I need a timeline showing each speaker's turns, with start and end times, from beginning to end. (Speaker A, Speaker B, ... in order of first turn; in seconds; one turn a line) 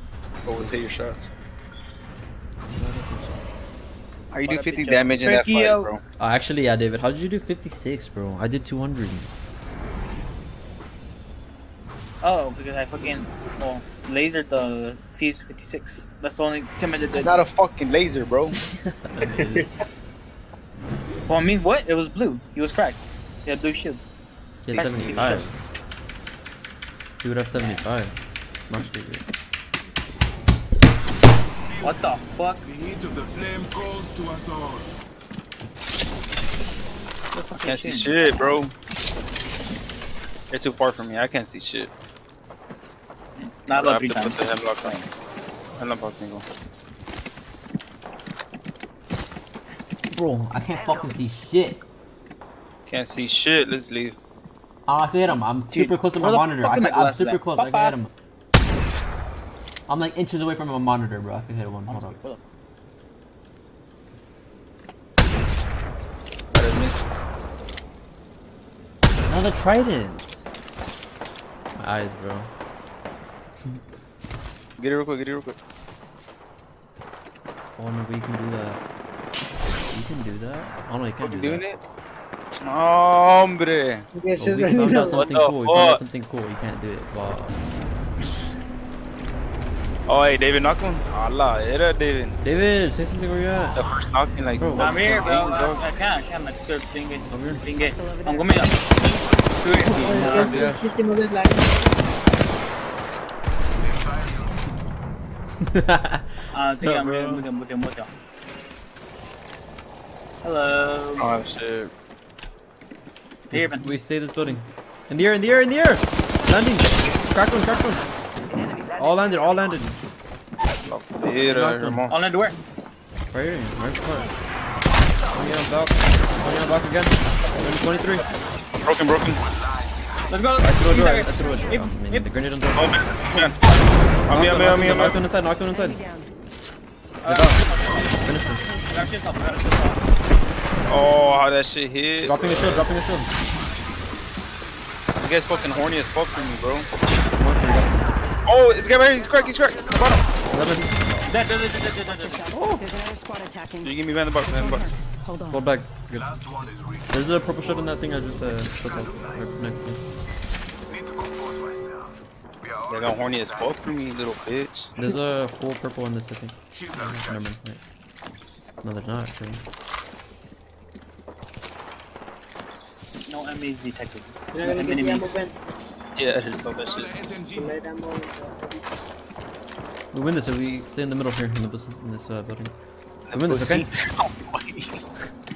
Speaker A: 0.4-1.3
Speaker B: 2.7-3.4
Speaker A: 4.3-6.0
Speaker C: 4.4-5.9
Speaker B: 6.2-9.3
Speaker C: 12.2-17.3
Speaker A: 17.1-18.6
Speaker B: 18.8-19.7
Speaker C: 21.3-24.0
Speaker B: 24.6-25.5
Speaker C: 24.7-25.5
Speaker A: 24.7-25.5
Speaker B: 27.2-29.2
Speaker C: 31.8-32.7
Speaker D: 32.9-34.8
Speaker C: 37.3-38.7
Speaker A: 37.6-38.7
Speaker A: 40.5-41.9
Speaker C: 43.4-45.1
Speaker A: 43.7-45.0
Speaker A: 45.8-46.4
Speaker B: 50.1-51.8
Speaker A: 52.9-54.2
Speaker B: 54.9-58.1
Speaker C: 55.3-58.0
Speaker B: 59.9-62.2
Speaker C: 61.9-62.5
Speaker A: 66.5-67.0
Speaker B: 69.2-70.4
Speaker B: 71.8-72.5
Speaker A: 74.8-75.5
Speaker B: 77.8-78.8
Speaker B: 79.7-81.6
Speaker A: 81.2-81.8
Speaker A: 82.6-84.1
Speaker E: 84.1-85.2
Speaker B: 84.4-87.6
Speaker A: 84.9-86.0
Speaker A: 90.1-92.4
Speaker B: 92.4-93.8
Speaker A: 93.8-95.9
Speaker B: 94.5-95.0
Speaker C: 94.8-98.8
Speaker B: 97.3-97.6
Speaker F: 97.8-99.4
Speaker C: 99.6-100.7
Speaker E: 99.8-102.0
Speaker B: 100.0-100.8
Speaker B: 105.6-107.4
Speaker C: 106.5-108.1
Speaker C: 110.4-111.3
Speaker A: 111.2-111.9
Speaker C: 113.5-113.9
Speaker B: 113.5-118.0
Speaker B: 118.9-120.0
Speaker A: 120.8-122.2
Speaker B: 121.4-122.0
Speaker C: 122.1-122.6
Speaker B: 123.3-124.3
Speaker B: 125.3-128.2
Speaker A: 128.8-129.4
Speaker C: 130.3-132.3
Speaker B: 130.6-132.9
Speaker A: 132.7-133.5
Speaker A: 134.3-135.2
Speaker B: 134.3-136.0
Speaker F: 135.7-136.3
Speaker C: 137.2-138.2
Speaker B: 137.2-137.6
Speaker B: 138.2-138.8
Speaker C: 138.9-140.0
Speaker A: 140.8-142.9
Speaker B: 142.2-143.3
Speaker A: 145.2-146.9
Speaker B: 147.3-148.0
Speaker A: 148.4-150.2
Speaker B: 150.5-151.3
Speaker C: 151.3-152.5
Speaker F: 152.1-155.7
Speaker B: 152.5-152.8
Speaker A: 153.8-154.9
Speaker B: 155.5-156.3
Speaker B: 157.1-160.0
Speaker A: 162.9-164.9
Speaker B: 165.0-167.8
Speaker B: 168.8-169.6
Speaker C: 173.2-175.4
Speaker E: 174.5-175.7
Speaker A: 176.1-177.1
Speaker E: 177.5-178.9
Speaker B: 180.1-183.9
Speaker A: 183.3-185.0